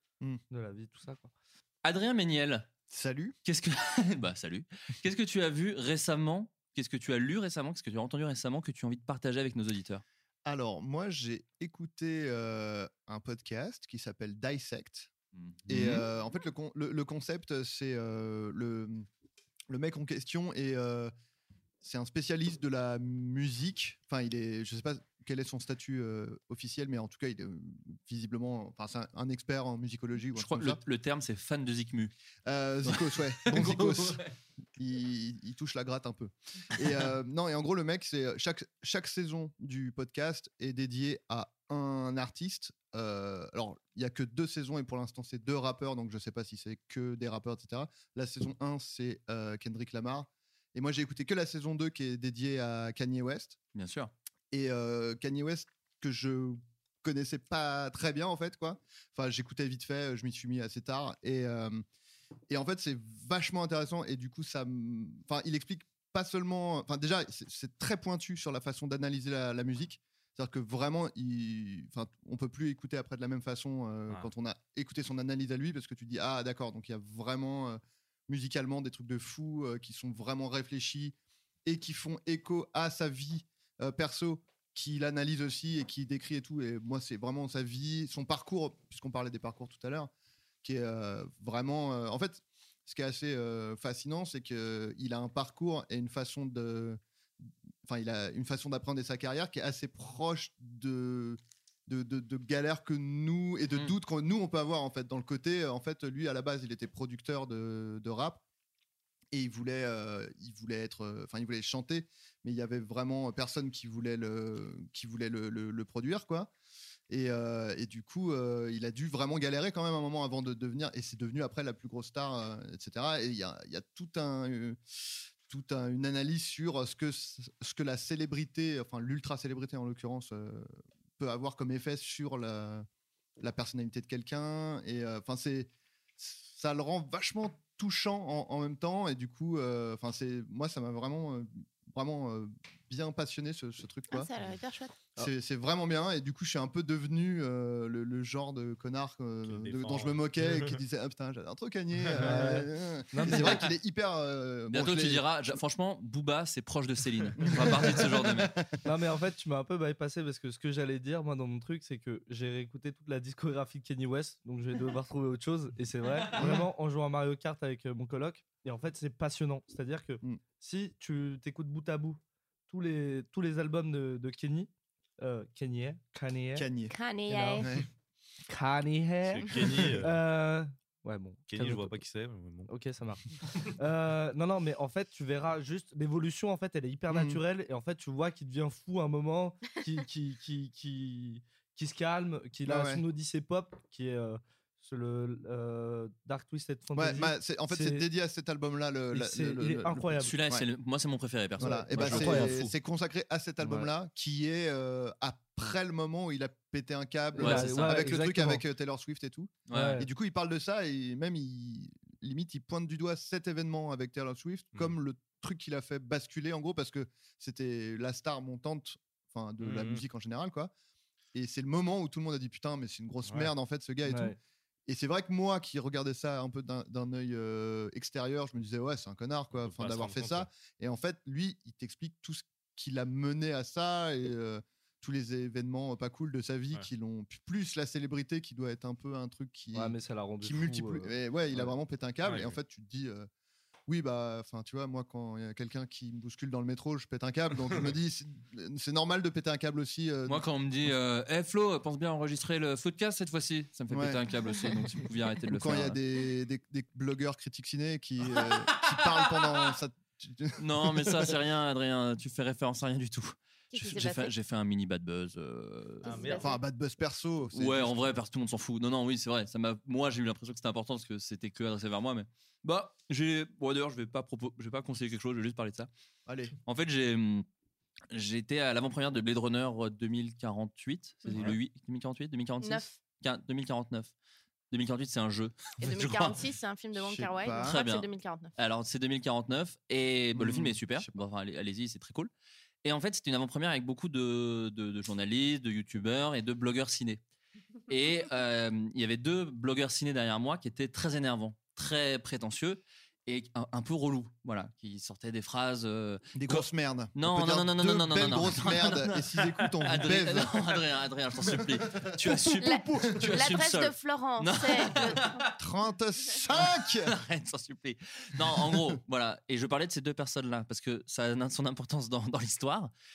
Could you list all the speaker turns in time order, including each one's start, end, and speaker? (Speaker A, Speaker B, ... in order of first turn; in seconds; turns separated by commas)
Speaker A: 0.5-1.3, Speaker B: 1.8-2.7, Speaker C: 2.9-3.3, Speaker B: 3.4-10.0, Speaker C: 10.4-15.1, Speaker B: 15.3-16.0, Speaker C: 15.7-19.1, Speaker C: 19.7-21.1, Speaker C: 21.8-30.8, Speaker B: 30.4-32.1, Speaker C: 32.5-34.2, Speaker B: 32.8-34.3, Speaker C: 34.8-53.6, Speaker B: 53.7-54.1, Speaker C: 54.5-61.8, Speaker C: 62.5-90.1, Speaker C: 90.6-108.4, Speaker C: 109.3-116.5, Speaker C: 117.1-124.8, Speaker C: 125.5-132.8, Speaker C: 133.4-144.3, Speaker D: 144.1-145.0, Speaker C: 145.2-155.2, Speaker E: 149.4-150.8, Speaker A: 152.2-153.7, Speaker B: 153.3-153.7, Speaker B: 154.7-158.6, Speaker C: 157.4-158.7, Speaker A: 158.8-176.7, Speaker C: 166.3-166.7, Speaker C: 176.6-176.9, Speaker D: 176.9-177.7, Speaker A: 177.3-177.7, Speaker C: 177.6-177.9, Speaker A: 178.5-182.0, Speaker E: 179.3-180.2, Speaker E: 181.5-182.7, Speaker A: 182.7-198.1, Speaker C: 187.1-187.4, Speaker C: 192.7-193.0, Speaker C: 196.9-200.7, Speaker A: 199.1-200.3, Speaker B: 200.2-202.7, Speaker C: 201.6-220.7, Speaker A: 201.6-202.6, Speaker A: 203.6-203.9, Speaker A: 207.3-208.6, Speaker B: 207.4-208.0, Speaker B: 209.7-210.0, Speaker A: 209.7-210.1, Speaker E: 219.6-220.0, Speaker C: 221.3-224.3, Speaker E: 223.2-223.5, Speaker A: 224.0-224.4, Speaker C: 224.9-243.3, Speaker E: 229.6-230.5, Speaker A: 239.7-241.7, Speaker E: 242.2-242.6, Speaker C: 243.9-250.4, Speaker B: 250.2-256.0, Speaker C: 253.9-254.8, Speaker C: 255.5-261.4, Speaker B: 258.4-259.6, Speaker B: 260.6-266.3, Speaker D: 263.7-264.3, Speaker E: 266.0-266.5, Speaker D: 266.0-266.6, Speaker C: 266.3-268.1, Speaker B: 267.5-275.9, Speaker C: 276.2-276.5, Speaker B: 276.6-277.4, Speaker B: 278.1-284.1, Speaker D: 282.6-282.9, Speaker B: 284.7-286.4, Speaker D: 285.8-288.5, Speaker C: 286.9-287.8, Speaker B: 287.6-292.3, Speaker C: 290.3-291.2, Speaker B: 292.8-297.2, Speaker B: 297.9-315.4, Speaker C: 306.3-310.7, Speaker C: 311.6-313.4, Speaker D: 312.6-315.5, Speaker C: 315.6-317.1, Speaker B: 317.0-322.9